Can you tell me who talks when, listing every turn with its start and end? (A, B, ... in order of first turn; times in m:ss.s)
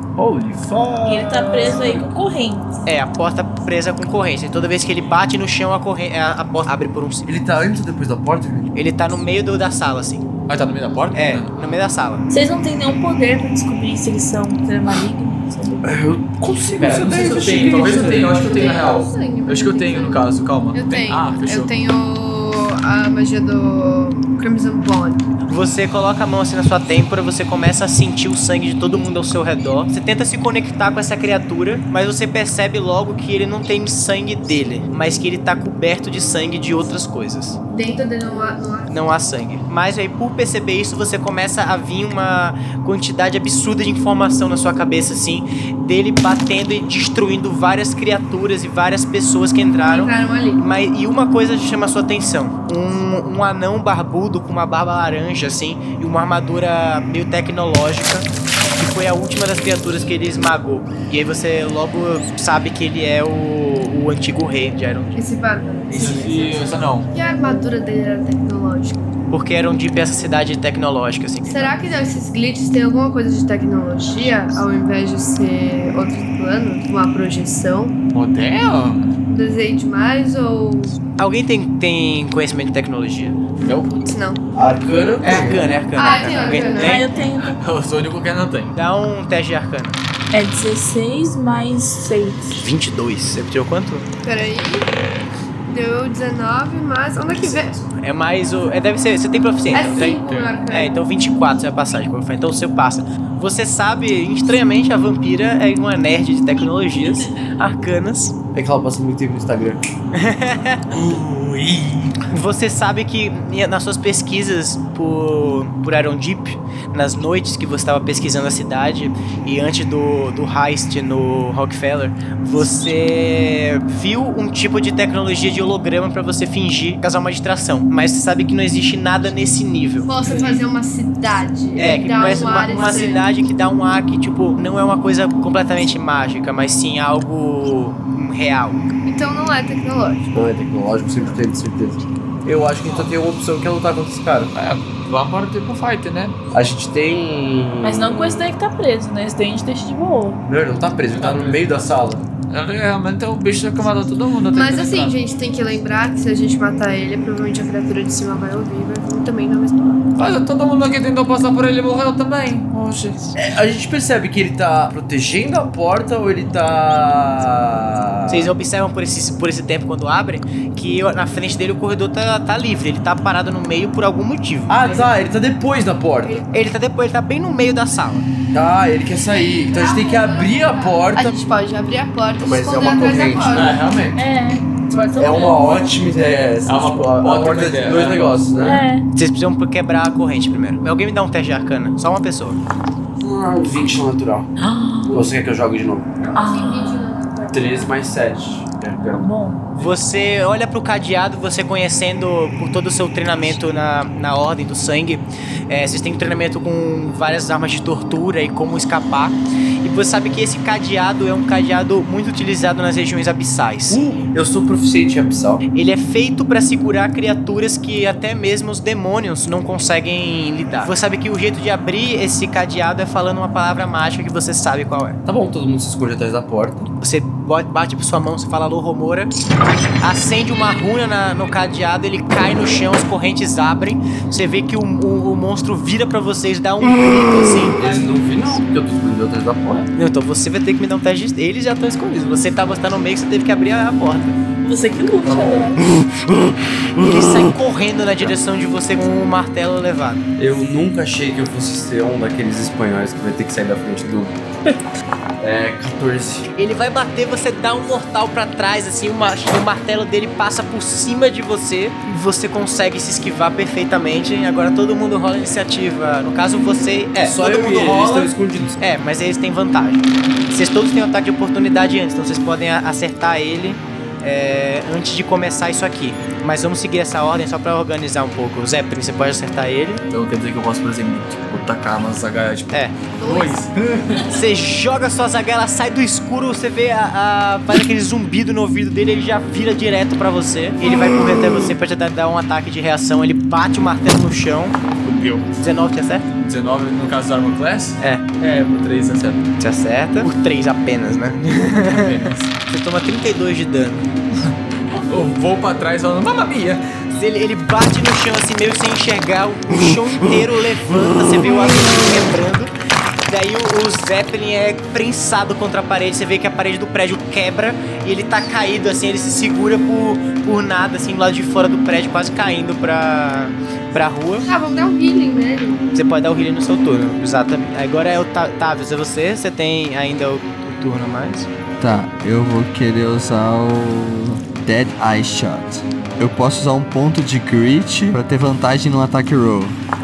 0:00.2-0:02.1 A
0:01.0-0:02.8 B
0:02.8-0:07.4 C
0:07.2-0:08.7 A
0:08.7-0:10.3 C
0:10.5-0:11.7 D
0:11.1-0:12.3 C
0:12.3-0:16.0 B
0:15.8-0:18.6 A
0:16.7-0:21.7 D
0:17.7-0:25.3 E
0:25.5-0:37.6 C
0:37.7-0:39.0 E
0:38.9-1:05.2 C
0:49.9-0:50.6 E
1:05.1-1:09.1 E
1:05.9-1:07.1 D
1:09.3-1:11.8 C
1:11.5-1:18.0 E
1:18.1-1:19.1 D
1:19.3-1:21.0 E
1:21.2-1:23.4 C
1:23.6-1:24.0 D
1:23.7-1:24.4 E
1:24.5-1:25.7 A
1:25.2-1:27.1 C
1:26.0-1:27.0 E
1:26.7-1:27.6 B
1:27.4-1:28.8 D
1:28.7-1:30.0 C
1:30.3-1:32.6 B
1:32.5-1:34.1 C
1:34.2-1:34.9 E
1:35.7-1:37.7 E
1:37.2-1:48.4 C
1:39.7-1:41.1 E
1:40.1-1:40.6 D
1:48.5-1:49.8 A
1:50.1-1:50.8 C
1:50.9-1:52.2 D
1:52.3-2:10.1 C
2:10.0-2:13.2 E
2:11.8-2:18.9 C
2:19.0-2:20.3 E
2:20.3-2:24.5 A
2:24.5-2:26.4 D
2:26.5-2:28.5 A
2:27.8-2:30.4 B
2:30.4-2:32.2 A
2:31.1-2:31.7 D
2:32.5-2:35.2 D
2:34.5-2:40.0 E
2:40.2-2:43.3 D
2:43.4-2:48.5 A
2:48.3-2:55.1 C
2:54.7-2:56.4 A
2:56.5-2:58.3 C
2:58.5-3:01.4 A
2:59.3-3:03.8 E
3:02.4-3:04.2 A
3:03.5-3:04.2 D
3:04.2-3:05.8 B
3:04.9-3:05.8 E
3:05.2-3:08.8 A
3:06.6-3:08.4 D
3:08.6-3:09.0 B
3:09.1-3:12.6 C
3:13.2-3:14.5 A
3:14.6-3:15.2 B
3:15.1-3:16.1 A
3:16.2-3:18.0 E
3:16.3-3:17.1 B
3:17.5-3:19.3 A
3:19.0-3:19.6 B
3:19.8-3:34.2 C
3:33.9-3:35.6 A
3:35.7-3:45.2 C
3:45.2-3:46.9 A
3:47.0-3:49.3 C
3:50.0-3:58.2 C
3:57.8-3:59.9 A
3:59.9-4:04.4 C
4:04.6-4:05.8 B
4:05.2-4:06.2 A
4:07.0-4:07.3 A
4:07.0-4:10.2 C
4:10.4-4:14.4 A
4:15.4-4:16.5 A
4:16.6-4:40.0 C
4:27.2-4:28.8 A
4:40.1-4:44.4 D
4:42.7-4:43.0 C
4:43.1-4:43.7 E
4:44.3-4:54.8 C
4:55.0-4:55.5 D
4:55.6-4:56.2 C
4:56.4-4:59.4 D
4:58.0-4:58.2 C
4:59.6-5:04.1 C
5:01.7-5:02.5 D
5:05.0-5:06.8 D
5:07.2-5:12.7 C
5:13.3-5:24.5 C
5:24.4-5:25.9 E
5:25.9-5:31.5 C
5:31.8-5:39.8 F